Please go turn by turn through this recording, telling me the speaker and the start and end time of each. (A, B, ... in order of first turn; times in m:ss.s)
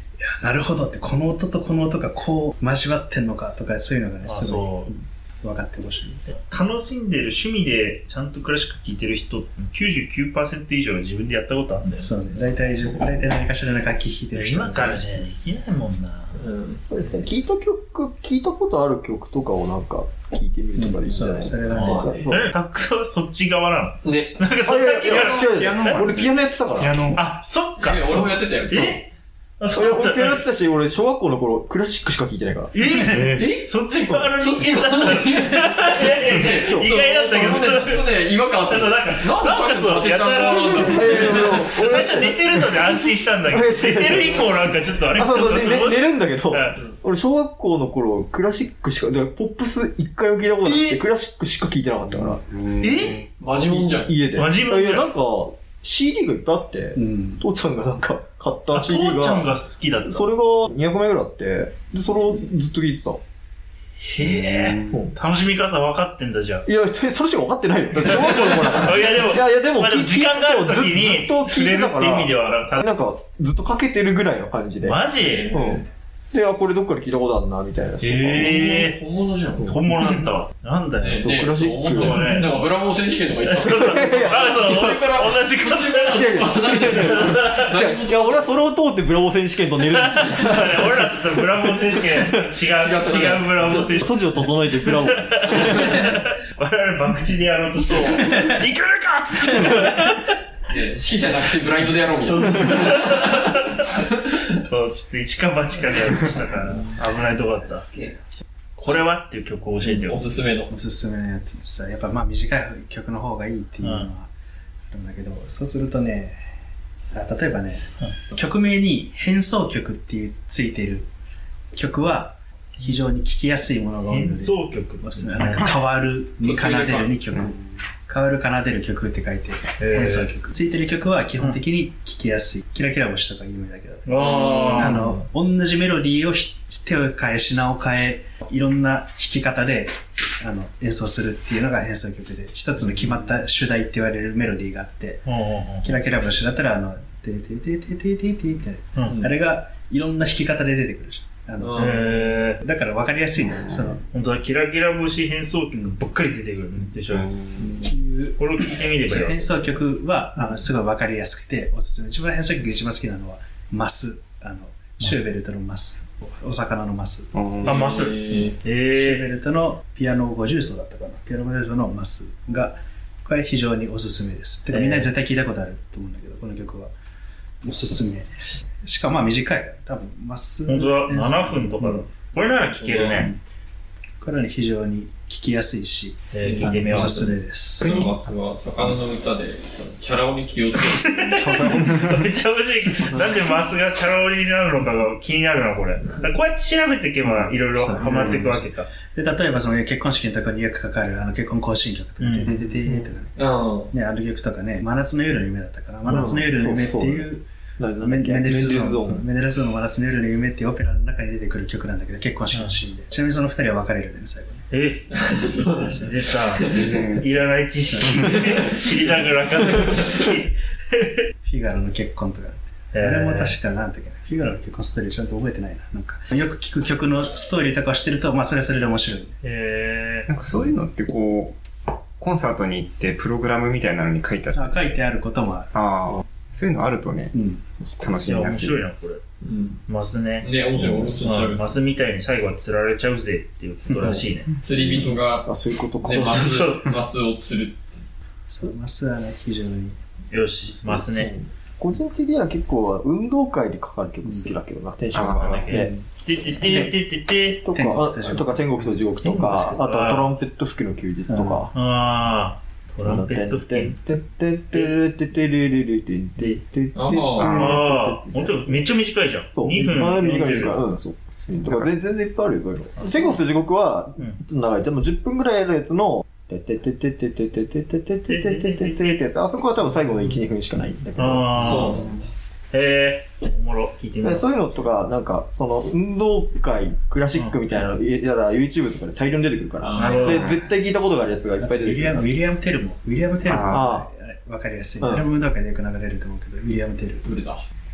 0:00.4-0:06.2 A
0:04.2-0:04.9 B
0:06.3-0:12.3 B
0:12.0-0:15.1 A
0:14.3-0:16.4 B
0:16.3-0:16.9 C
0:16.9-0:22.5 D
0:20.8-0:22.1 A
0:21.7-0:26.1 B
0:21.8-0:22.3 C
0:24.0-0:24.4 C
0:24.6-0:27.0 D
0:25.1-0:27.3 E
0:27.1-0:29.0 B
0:27.8-0:29.0 C
0:29.6-0:30.4 B
0:29.7-0:32.8 D
0:32.7-0:46.8 B
0:33.1-0:33.5 E
0:33.5-0:34.4 D
0:34.4-0:41.7 C
0:36.5-0:37.7 D
0:40.8-0:52.4 D
0:50.6-0:51.0 B
0:52.3-0:53.3 E
0:52.8-0:53.2 B
0:53.4-0:54.2 C
0:53.6-1:03.2 D
0:54.3-0:55.1 B
0:56.9-0:57.4 A
0:58.7-1:00.3 B
1:04.0-1:06.6 B
1:04.2-1:04.9 E
1:06.6-1:18.6 D
1:08.0-1:12.9 B
1:14.8-1:15.5 B
1:15.2-1:15.8 C
1:18.0-1:19.0 B
1:18.3-1:19.9 C
1:19.7-1:21.3 B
1:21.0-1:28.6 C
1:21.2-1:22.3 D
1:21.9-1:22.7 B
1:23.5-1:26.4 B
1:23.6-1:25.0 D
1:26.1-1:32.5 D
1:26.9-1:27.7 B
1:29.8-1:40.3 B
1:32.7-1:33.8 C
1:33.5-1:36.0 D
1:35.5-1:36.1 C
1:37.8-1:38.6 C
1:40.7-1:44.4 C
1:42.3-1:43.8 B
1:44.5-1:47.8 B
1:47.9-1:48.1 C
1:48.8-1:50.3 B
1:49.8-1:50.7 C
1:50.7-1:54.3 A
1:53.8-1:54.1 B
1:54.9-1:56.4 A
1:57.1-2:01.1 A
2:01.7-2:25.3 A
2:04.1-2:05.8 B
2:06.4-2:07.1 C
2:09.8-2:10.3 B
2:14.0-2:15.2 B
2:14.2-2:14.9 C
2:25.2-2:25.9 B
2:25.8-2:34.0 A
2:28.9-2:29.2 B
2:31.6-2:32.1 C
2:31.8-2:32.6 B
2:34.1-2:37.3 B
2:37.1-2:37.6 E
2:37.6-2:38.4 A
2:38.4-2:39.7 B
2:39.0-2:47.4 A
2:47.3-2:47.8 E
2:47.6-2:49.2 B
2:47.6-2:48.6 C
2:48.9-2:56.9 A
2:54.7-2:55.1 B
2:57.6-2:58.3 A
2:58.8-3:02.0 A
3:00.6-3:03.3 B
3:02.8-3:03.4 A
3:02.9-3:03.2 C
3:04.2-3:08.0 A
3:06.3-3:07.4 B
3:06.4-3:11.7 C
3:07.8-3:08.1 E
3:10.9-3:18.9 B
3:11.3-3:12.0 D
3:11.9-3:12.2 E
3:17.2-3:27.4 A
3:18.0-3:18.5 E
3:22.2-3:22.8 B
3:23.4-3:23.9 C
3:26.0-3:29.3 D
3:28.0-3:34.6 A
3:32.5-3:32.8 B
3:34.7-3:35.1 B
3:35.1-3:37.1 C
3:35.8-3:36.1 A
3:35.9-3:41.1 B
3:36.8-3:37.2 E
3:38.2-3:38.7 C
3:41.4-3:49.3 A
3:42.9-3:43.6 B
3:49.4-3:50.3 B
3:50.3-3:51.6 E
3:52.2-3:55.0 E
3:54.5-3:55.7 A
3:55.7-3:57.3 E
3:57.3-3:57.6 A
3:58.0-3:58.8 E
3:58.2-3:59.2 B
3:59.4-3:59.8 C
3:59.9-4:04.5 B
4:00.4-4:01.7 C
4:04.0-4:04.2 D
4:04.6-4:05.5 C
4:05.4-4:06.8 D
4:06.0-4:07.9 C
4:06.1-4:06.9 B
4:08.5-4:10.0 A
4:10.3-4:11.3 B
4:10.8-4:15.9 D
4:14.2-4:14.6 A
4:15.1-4:15.8 E
4:15.3-4:17.7 B
4:15.7-4:16.0 A
4:17.6-4:21.8 D
4:17.7-4:18.9 A
4:19.2-4:20.3 B
4:21.3-4:21.6 A
4:21.7-4:24.2 B
4:23.0-4:28.9 D
4:24.7-4:25.0 B
4:26.9-4:27.6 C
4:27.4-4:27.8 E
4:27.4-4:30.8 B
4:29.5-4:41.9 D
4:33.0-4:33.4 B
4:38.3-4:39.2 B
4:41.2-4:42.0 B
4:41.6-4:42.2 C
4:42.7-4:44.6 B
4:44.2-4:52.3 D
4:47.3-4:48.0 B
4:49.8-4:50.4 C
4:50.0-4:50.5 B
4:51.6-4:57.3 A
4:53.4-4:53.9 E
4:53.6-4:54.1 D
4:55.0-4:55.3 D
4:57.2-4:57.6 C